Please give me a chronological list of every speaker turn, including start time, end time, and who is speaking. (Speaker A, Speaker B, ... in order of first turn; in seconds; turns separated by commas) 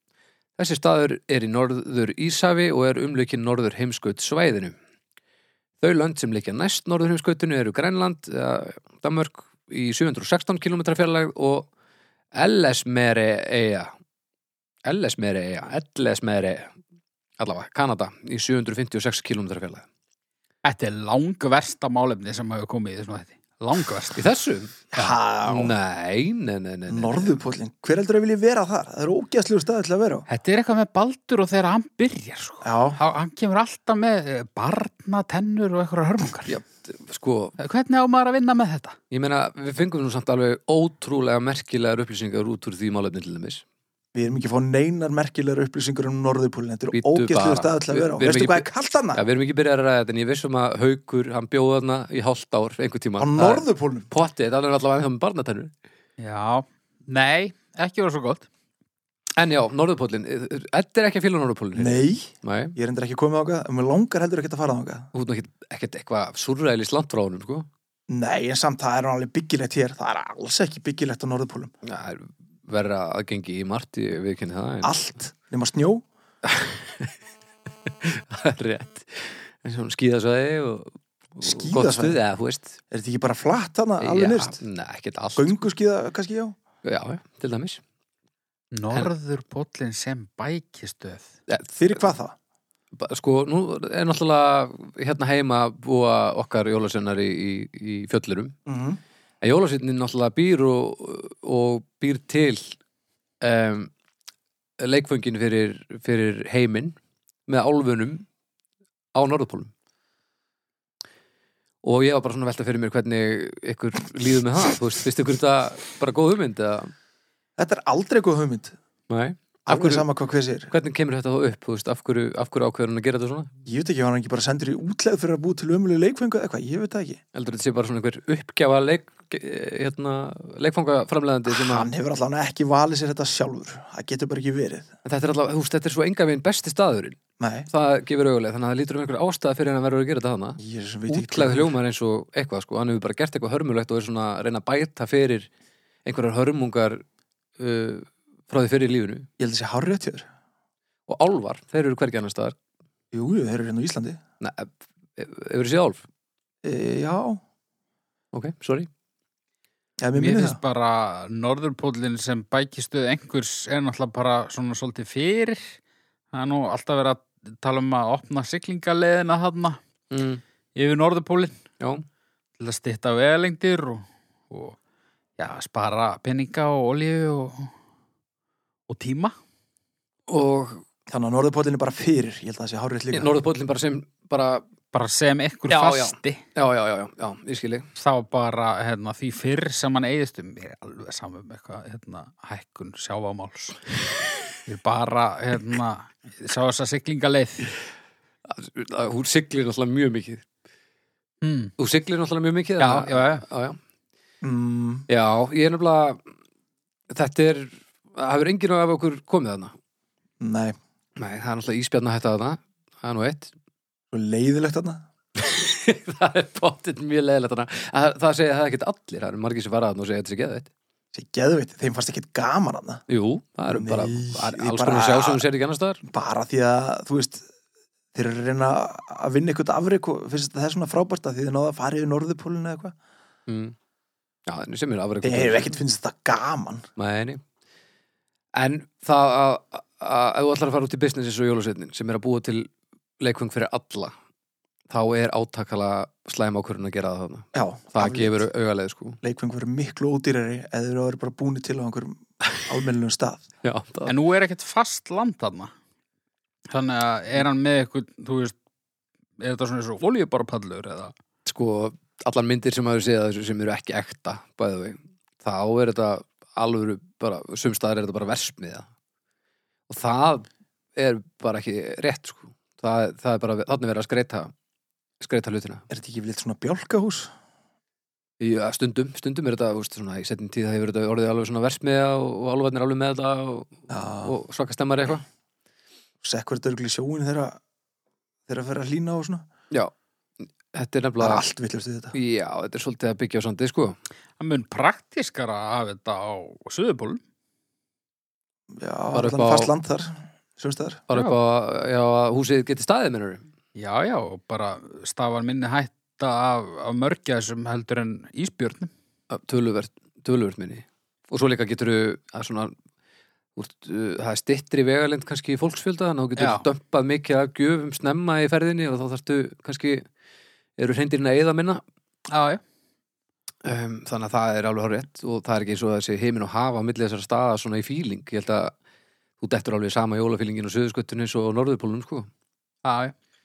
Speaker A: 0.6-4.8, Speaker A: 5.8-11.7, Speaker A: 12.3-13.9, Speaker A: 14.8-16.7, Speaker A: 17.4-19.9, Speaker B: 20.6-24.2, Speaker A: 24.1-24.9, Speaker C: 24.9-25.7, Speaker A: 25.4-27.4, Speaker C: 26.9-30.2, Speaker B: 30.3-36.5, Speaker C: 32.6-33.0, Speaker A: 36.5-37.5, Speaker B: 37.6-39.0, Speaker A: 39.1-43.6, Speaker C: 44.1-49.2, Speaker A: 46.9-55.7, Speaker C: 53.2-54.1, Speaker B: 56.2-58.5, Speaker A: 59.4-62.8, Speaker C: 61.7-65.1, Speaker A: 65.1-67.7, Speaker C: 68.1-71.7, Speaker A: 71.8-75.0, Speaker C: 74.8-76.0, Speaker A: 76.4-77.2, Speaker A: 77.9-82.8, Speaker C: 81.4-82.2, Speaker C: 82.9-84.6, Speaker A: 84.0-85.6, Speaker C: 85.3-86.5, Speaker A: 86.8-87.8, Speaker B: 88.7-91.3, Speaker A: 91.5-92.1, Speaker C: 91.8-92.3, Speaker A: 92.9-98.5, Speaker C: 98.7-99.0, Speaker A: 99.4-102.8, Speaker A: 103.4-103.9, Speaker A: 104.8-107.0, Speaker A: 107.5-108.2, Speaker A: 109.1-109.7, Speaker A: 111.8-116.9, Speaker C: 117.6-118.7, Speaker A: 119.1-120.1, Speaker C: 119.7-120.7, Speaker A: 120.7-123.5, Speaker C: 123.6-127.2, Speaker A: 127.3-131.9, Speaker C: 131.5-134.9, Speaker A: 135.0-145.5, Speaker C: 137.4-137.7, Speaker C: 140.6-141.8, Speaker A: 146.0-147.0, Speaker A: 147.6-149.3, Speaker C: 149.4-150.3, Speaker A: 151.1-152.6, Speaker C: 153.1-154.2, Speaker A: 154.4-156.0, Speaker C: 156.6-157.4, Speaker A: 158.3-158.9, Speaker C: 160.0-160.6, Speaker B: 160.2-165.7, Speaker B: 166.3-169.8, Speaker A: 170.1-170.4, Speaker B: 170.8-171.6, Speaker A: 171.8-172.0, Speaker B: 172.6-174.8, Speaker B: 175.4-177.7, Speaker B: 178.9-179.3, Speaker A: 180.3-180.8, Speaker C: 181.1-183.3, Speaker A: 183.1-184.7, Speaker B: 184.9-186.4, Speaker A: 185.7-187.9, Speaker B: 187.9-193.8, Speaker B: 194.7-197.7, Speaker A: 198.4-200.4, Speaker B: 201.4-201.7, Speaker A: 201.8-203.8, Speaker B: 202.8-203.4, Speaker C: 204.4-205.1, Speaker A: 205.1-206.2, Speaker A: 207.1-209.7, Speaker C: 210.4-210.8, Speaker A: 211.2-213.5, Speaker C: 214.1-215.0, Speaker A: 215.3-220.7, Speaker C: 221.1-223.0, Speaker A: 223.1-226.0, Speaker C: 223.7-225.4, Speaker C: 226.0-227.4, Speaker C: 228.1-232.9, Speaker A: 233.5-233.7, Speaker A: 234.5-235.7, Speaker C: 235.2-236.9, Speaker A: 237.0-237.4, Speaker A: 238.6-244.1, Speaker A: 244.9-249.2, Speaker C: 247.5-248.4, Speaker C: 249.2-253.4, Speaker A: 253.6-254.1, Speaker B: 254.1-255.7, Speaker B: 256.7-258.5, Speaker B: 259.4-261.1, Speaker A: 261.4-268.9, Speaker A: 269.9-274.5, Speaker A: 275.2-275.8, Speaker C: 275.9-277.3, Speaker A: 278.4-285.2, Speaker C: 283.9-284.3, Speaker C: 286.2-287.6, Speaker C: 288.5-289.4, Speaker A: 290.4-291.4, Speaker C: 291.2-292.1, Speaker A: 292.1-294.0, Speaker B: 294.4-297.2, Speaker C: 298.7-301.0, Speaker A: 299.1-299.7, Speaker A: 301.1-303.4, Speaker B: 303.7-308.9, Speaker A: 309.3-312.7, Speaker A: 313.6-320.0, Speaker B: 316.4-316.6, Speaker A: 320.8-321.8, Speaker B: 322.3-322.6, Speaker A: 323.6-328.7, Speaker A: 329.4-332.3, Speaker B: 332.8-333.1